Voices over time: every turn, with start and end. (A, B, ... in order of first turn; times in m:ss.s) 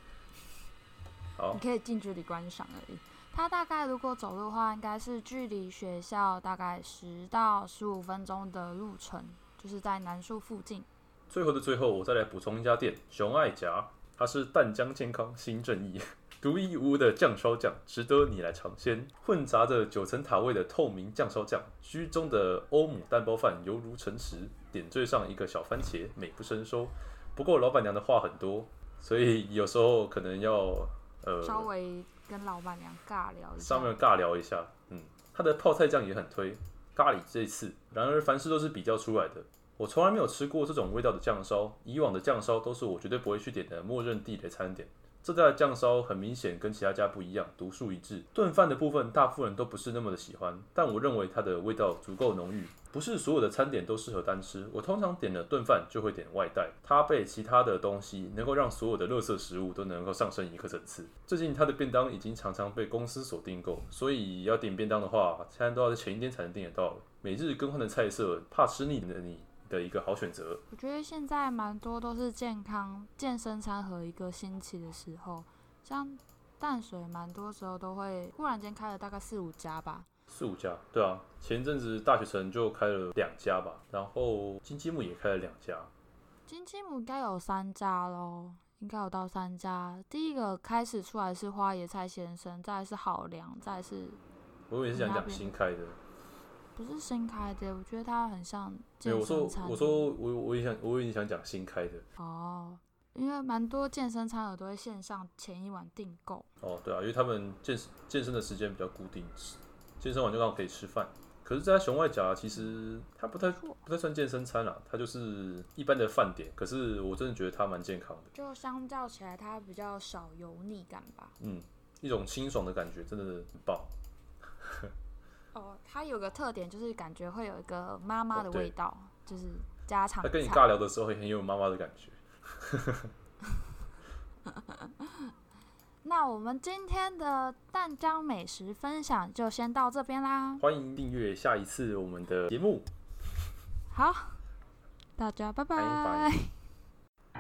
0:01.5-0:10.9 A
0:11.3-0:31.7 B
0:31.4-0:33.9 A
0:33.6-1:10.6 B
1:10.7-1:20.1 A
1:20.3-1:25.9 B
1:26.5-1:34.2 A
1:34.7-1:36.0 B
1:34.9-1:35.6 A
1:36.8-1:40.1 A
1:39.0-1:42.0 B
1:42.2-1:46.5 A
1:46.6-1:58.3 B
1:53.4-1:53.8 A
1:58.3-2:01.3 A
2:01.4-2:03.9 B
2:04.6-2:04.9 B
2:05.5-2:10.6 A
2:08.3-2:08.7 B
2:10.2-2:13.1 B
2:14.5-2:15.1 A
2:16.0-2:20.6 A
2:20.6-2:22.9 B
2:23.9-2:24.4 A
2:25.2-2:26.5 A
2:25.8-2:26.3 B